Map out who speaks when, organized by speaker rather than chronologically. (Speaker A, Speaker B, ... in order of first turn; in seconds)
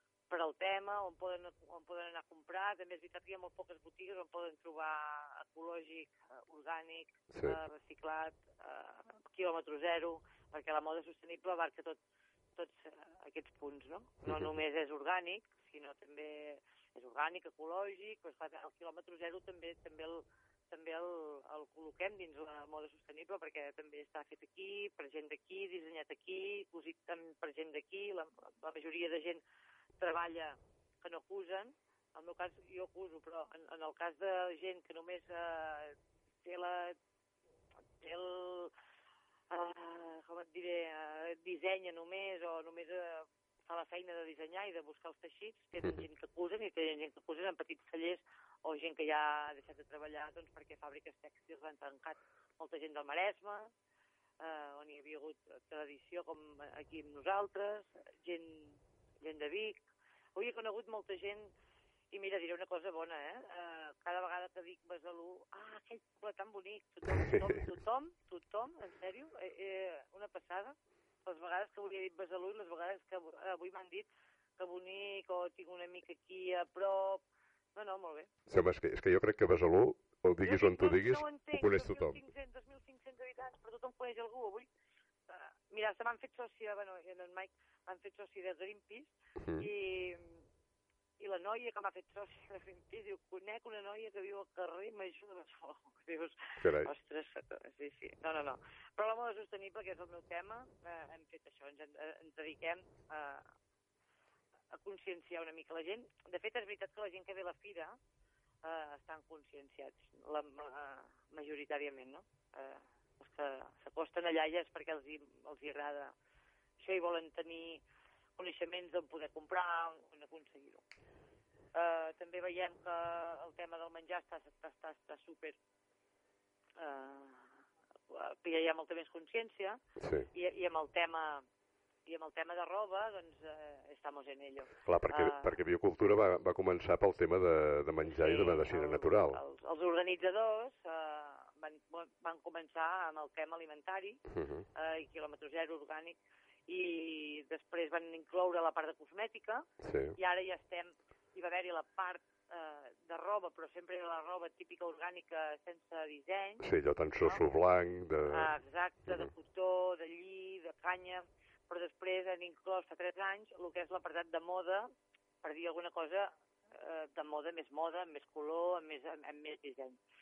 Speaker A: 0.3-12.0, 12.6-29.4, 30.0-37.0, 38.0-38.7, 39.5-53.7, 54.4-59.8, 60.4-61.5, 62.1-77.2, 77.7-78.3, 80.4-84.7, 85.3-90.3, 91.2-103.5, 104.7-108.0, 108.6-116.1, 116.8-117.8, 118.4-120.8, 121.7-125.6, 126.8-127.5, 128.1-129.8, 130.3-131.4, 132.1-135.6, 138.1-144.2, 144.7-146.2, 146.7-156.7, 158.3-164.9, 165.4-170.0
Speaker B: 7.3-7.6, 14.2-14.6, 67.3-67.6, 78.5-82.2, 89.4-89.7, 96.6-96.9, 130.0-130.3, 134.8-139.4, 144.3-144.7, 149.8-150.2, 156.6-159.3